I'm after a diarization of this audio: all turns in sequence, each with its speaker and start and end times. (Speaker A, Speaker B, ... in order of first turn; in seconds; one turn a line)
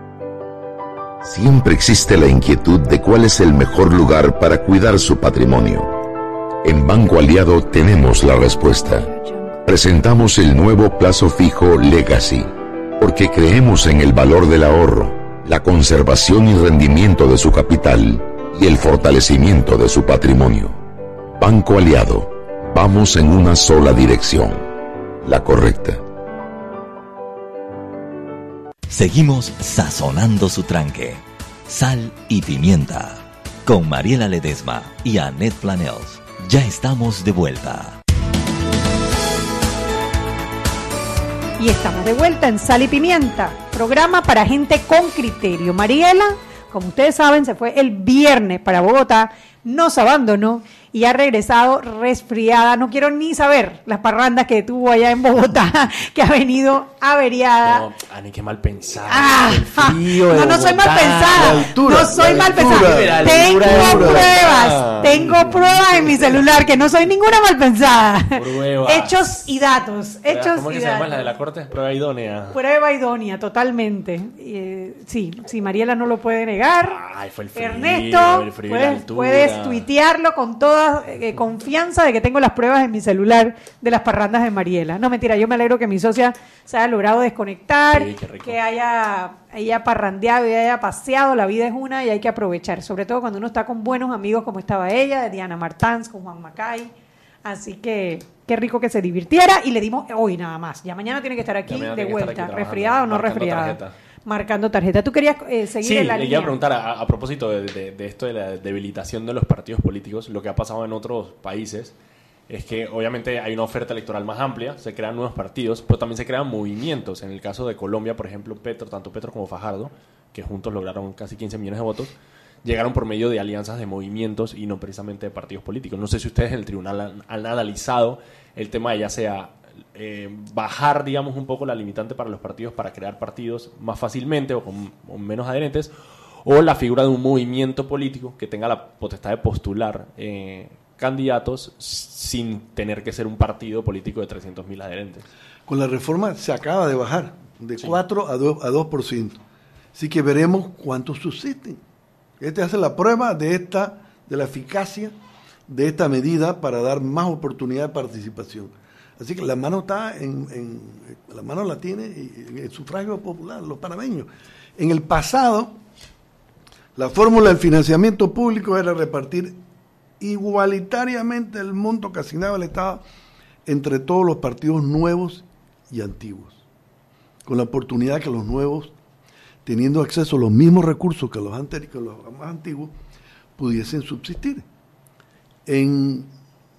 Speaker A: 1.2-6.0
Speaker A: 6.6-20.8
Speaker A: 21.3-24.7
Speaker A: 25.2-26.0
Speaker B: 28.9-38.0
Speaker C: 41.6-57.9
Speaker D: 57.6-66.8
Speaker C: 59.1-71.3
Speaker E: 61.4-64.4
Speaker E: 65.1-65.5
Speaker D: 68.4-69.2
Speaker D: 70.3-72.6
Speaker C: 72.5-77.0
Speaker D: 76.9-79.9
Speaker C: 77.5-96.9
Speaker D: 87.9-88.6
Speaker C: 97.5-106.6
Speaker D: 101.7-104.0
Speaker D: 105.8-111.9
Speaker D: 112.5-122.1
Speaker D: 122.6-135.9
Speaker D: 136.4-145.3
Speaker E: 145.7-149.4
Speaker E: 149.9-151.8
Speaker E: 152.4-155.2
Speaker E: 155.7-165.8
Speaker E: 167.0-169.6
Speaker E: 170.2-173.0
Speaker E: 173.7-176.6
Speaker E: 177.4-178.9
Speaker E: 179.7-182.9
Speaker E: 183.6-184.7
Speaker E: 185.7-186.3